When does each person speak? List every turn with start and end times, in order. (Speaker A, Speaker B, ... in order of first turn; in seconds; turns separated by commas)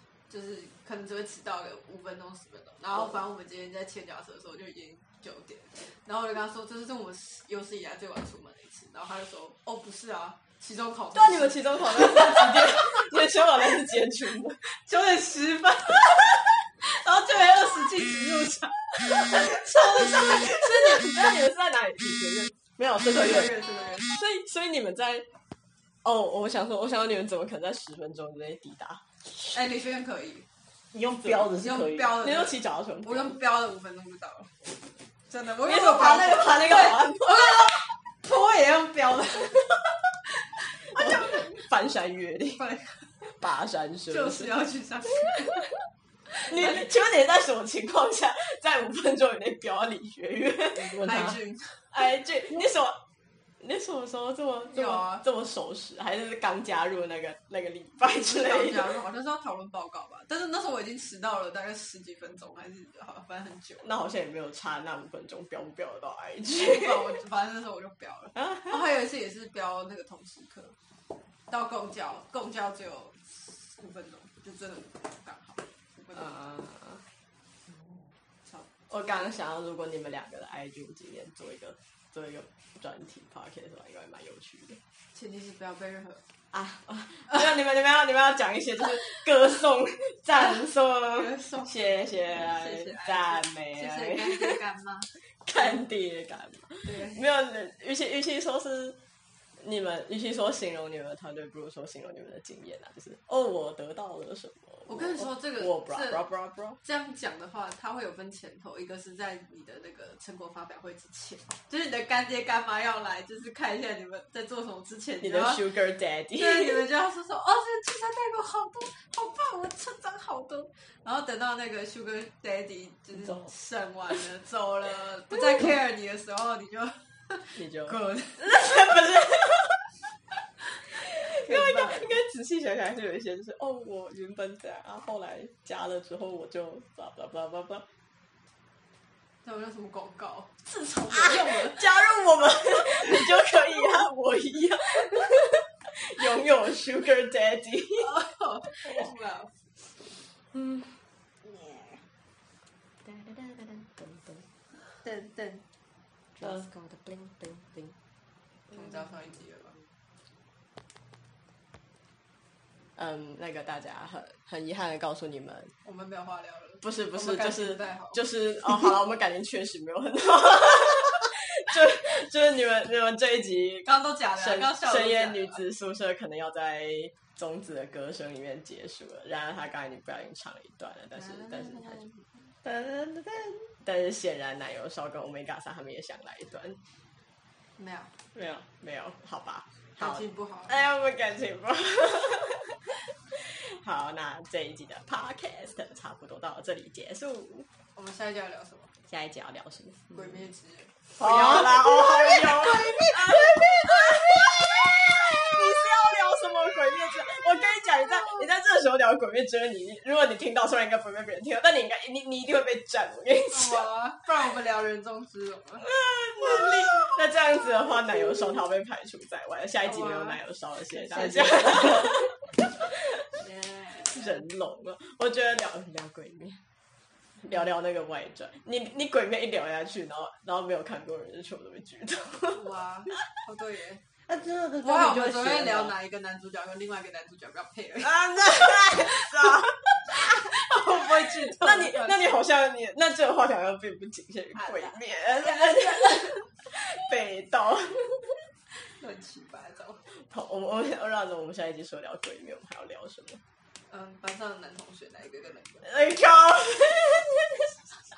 Speaker A: 0.3-12.9, Speaker B: 11.1-14.6, Speaker A: 14.7-21.3, Speaker B: 20.0-23.5, Speaker A: 23.0-24.1, Speaker B: 24.1-25.2, Speaker B: 26.0-29.0, Speaker A: 29.5-30.4, Speaker C: 30.9-32.2, Speaker A: 31.6-34.7, Speaker B: 32.2-33.4, Speaker A: 35.3-39.7, Speaker B: 35.6-37.8, Speaker A: 40.6-41.6, Speaker B: 40.9-42.6, Speaker A: 42.6-43.3, Speaker B: 43.4-44.5, Speaker A: 44.1-45.8, Speaker A: 46.3-46.8, Speaker B: 46.5-51.3, Speaker C: 50.7-51.4, Speaker A: 50.8-51.9, Speaker B: 51.9-53.0, Speaker B: 53.6-58.9, Speaker A: 54.7-55.2, Speaker A: 58.1-63.9, Speaker B: 63.8-67.1, Speaker A: 66.5-70.8, Speaker B: 68.3-68.8, Speaker A: 71.5-76.4, Speaker B: 76.1-77.0, Speaker B: 78.9-84.8, Speaker A: 85.1-86.2, Speaker B: 86.5-94.6, Speaker A: 91.2-95.8, Speaker B: 95.3-99.0, Speaker A: 96.8-97.2, Speaker B: 99.6-106.8, Speaker A: 104.9-106.2, Speaker A: 106.8-115.6, Speaker B: 115.2-116.8, Speaker A: 116.4-128.5, Speaker B: 123.1-123.5, Speaker B: 127.5-129.9, Speaker B: 131.1-137.8, Speaker A: 131.1-132.1, Speaker A: 139.4-141.8, Speaker B: 140.7-148.1, Speaker A: 148.0-149.5, Speaker B: 150.5-151.0, Speaker B: 153.0-154.4, Speaker A: 155.0-155.6, Speaker B: 156.4-157.9, Speaker A: 158.7-159.8, Speaker B: 162.9-165.7, Speaker A: 165.8-168.2, Speaker B: 166.8-182.0, Speaker A: 173.8-175.6, Speaker A: 181.2-182.2, Speaker B: 182.6-186.8, Speaker A: 187.8-188.1, Speaker B: 188.3-197.7, Speaker A: 190.0-190.8, Speaker A: 197.9-198.9, Speaker B: 199.1-200.3, Speaker A: 200.1-201.1, Speaker B: 201.2-213.8, Speaker C: 201.2-204.9, Speaker A: 213.5-215.9, Speaker B: 215.8-223.2, Speaker A: 219.8-220.4, Speaker A: 220.9-222.0, Speaker A: 223.3-224.4, Speaker B: 224.1-226.6, Speaker B: 227.4-232.6, Speaker A: 232.5-234.0, Speaker C: 234.3-235.9, Speaker A: 234.8-242.4, Speaker B: 238.0-240.2, Speaker B: 241.4-248.2, Speaker A: 244.5-246.4, Speaker A: 248.8-250.0, Speaker B: 250.1-253.4, Speaker A: 253.9-255.9, Speaker B: 255.8-257.7